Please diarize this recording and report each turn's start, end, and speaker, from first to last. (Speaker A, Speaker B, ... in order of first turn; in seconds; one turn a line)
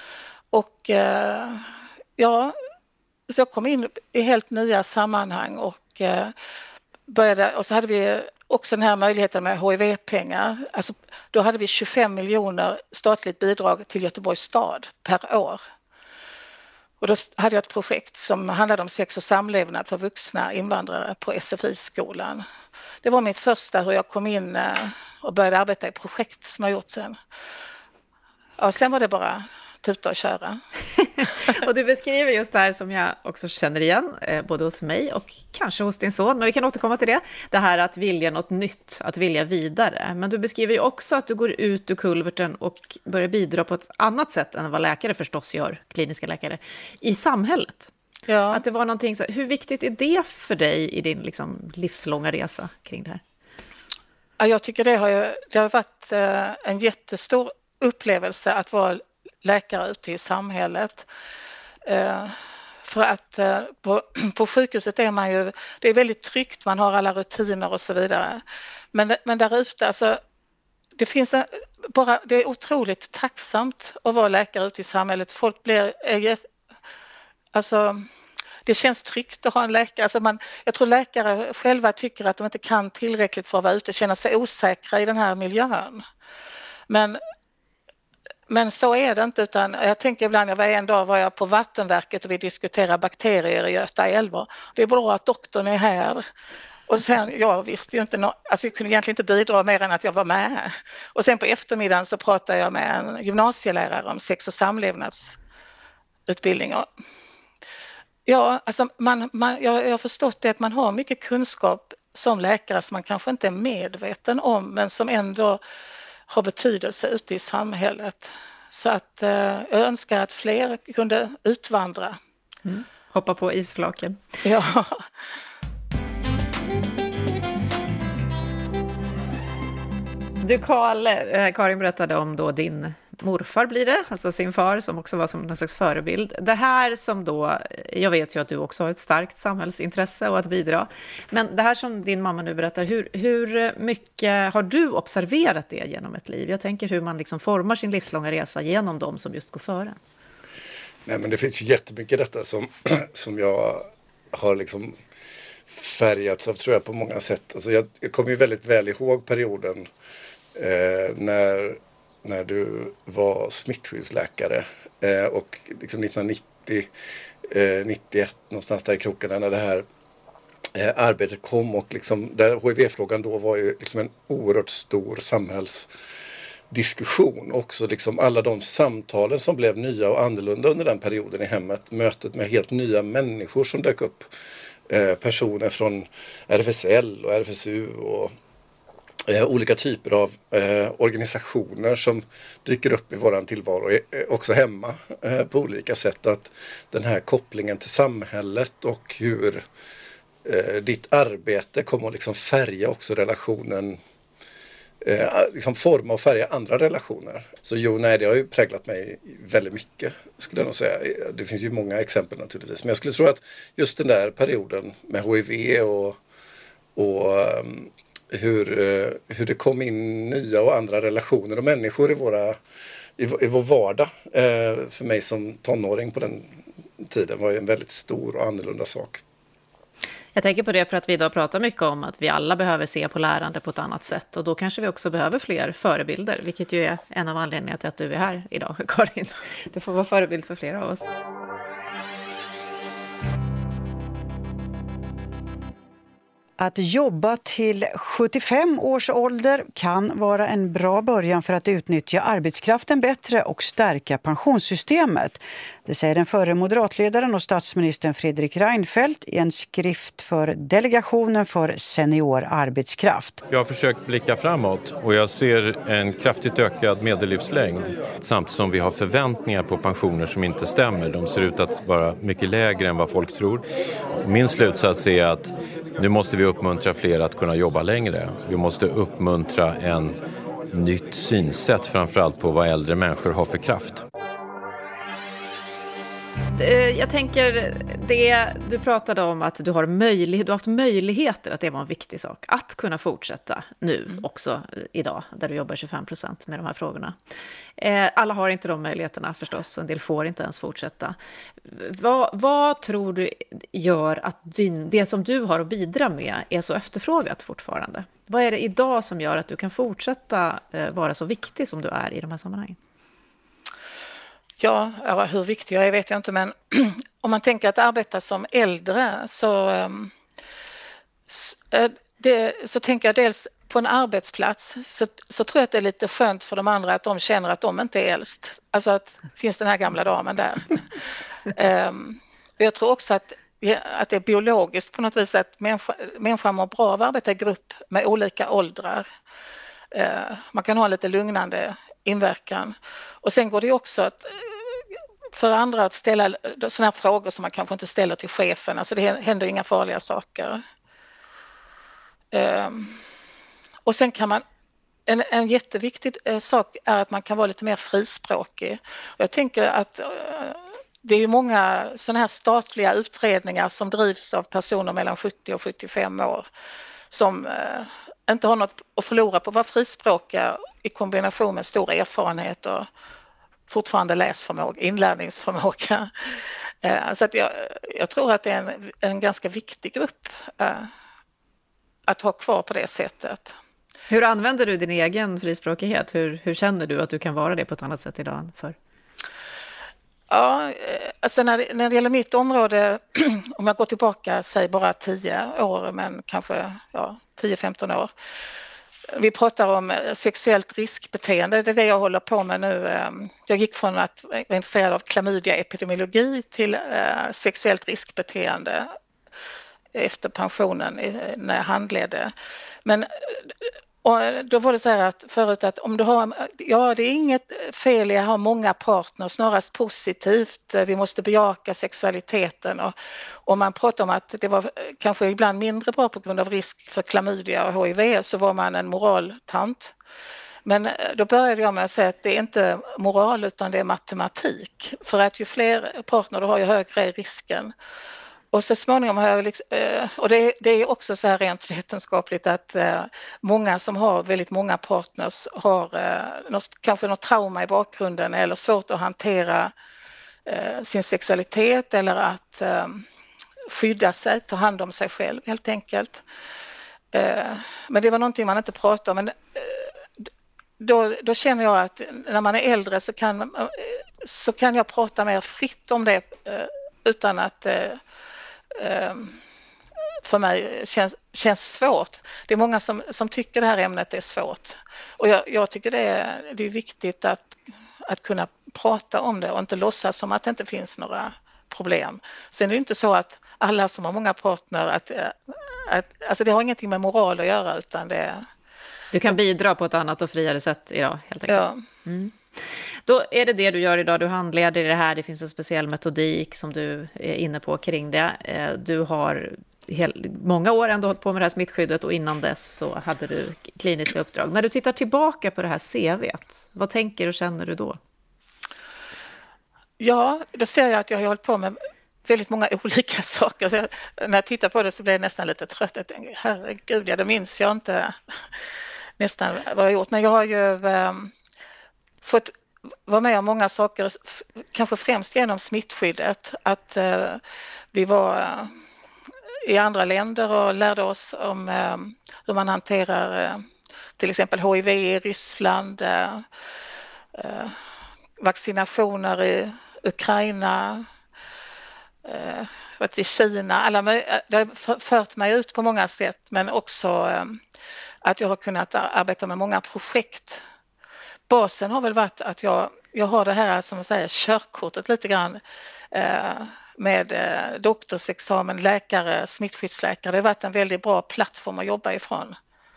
Speaker A: 0.5-2.5
Speaker A: 3.3-6.3
Speaker A: 7.1-15.6
Speaker A: 17.0-22.4
Speaker A: 23.0-27.2
Speaker A: 28.6-30.6
Speaker B: 31.2-47.9
Speaker A: 48.3-48.6
Speaker B: 48.5-53.2
Speaker A: 54.4-61.1
Speaker A: 61.9-68.4
Speaker A: 68.9-70.2
Speaker A: 71.0-76.4
Speaker A: 77.5-78.1
Speaker A: 78.7-86.0
Speaker A: 86.9-87.2
Speaker A: 88.5-96.2
Speaker A: 96.9-105.3
Speaker A: 106.3-106.9
Speaker A: 108.2-115.6
Speaker A: 116.3-122.2
Speaker B: 122.6-124.2
Speaker A: 124.4-125.0
Speaker B: 130.4-150.0
Speaker C: 151.1-154.9
Speaker C: 155.7-159.9
Speaker C: 160.5-166.9
Speaker C: 167.4-169.8
Speaker C: 170.7-175.9
Speaker C: 176.7-184.3
Speaker C: 184.9-188.3
Speaker C: 189.3-199.6
Speaker C: 200.4-204.0
Speaker C: 205.0-216.2
Speaker C: 216.9-222.6
Speaker C: 223.2-229.2
Speaker B: 230.3-241.1
Speaker D: 246.6-263.4
Speaker E: 263.5-273.6
Speaker E: 274.2-280.1
Speaker E: 280.7-284.0
Speaker B: 286.5-297.1
Speaker B: 297.8-312.8
Speaker A: 314.6-320.1
Speaker A: 321.3-330.9
Speaker A: 331.5-339.1
Speaker A: 339.9-344.6
Speaker A: 345.3-350.6
Speaker A: 352.3-353.0
Speaker A: 353.9-354.4
Speaker A: 355.1-366.4
Speaker A: 367.1-372.9
Speaker A: 373.7-380.9
Speaker A: 382.1-383.6
Speaker B: 384.1-388.8
Speaker A: 390.3-398.1
Speaker A: 399.1-408.9
Speaker A: 409.9-412.3
Speaker A: 412.8-422.9
Speaker A: 423.4-429.9
Speaker A: 430.6-437.7
Speaker A: 438.5-449.7
Speaker A: 450.4-453.0
Speaker A: 453.7-456.2
Speaker A: 457.1-459.9
Speaker A: 460.8-468.0
Speaker A: 468.8-469.4
Speaker A: 470.2-488.5
Speaker B: 489.1-492.3
Speaker A: 491.5-491.8
Speaker B: 493.1-508.0
Speaker A: 510.0-518.2
Speaker A: 519.2-521.3
Speaker A: 522.2-522.5
Speaker A: 523.1-527.4
Speaker A: 527.9-528.7
Speaker A: 529.6-533.6
Speaker A: 534.2-536.4
Speaker A: 537.3-537.8
Speaker A: 538.4-541.0
Speaker A: 542.2-547.6
Speaker A: 548.2-550.6
Speaker A: 551.5-555.6
Speaker A: 556.1-562.5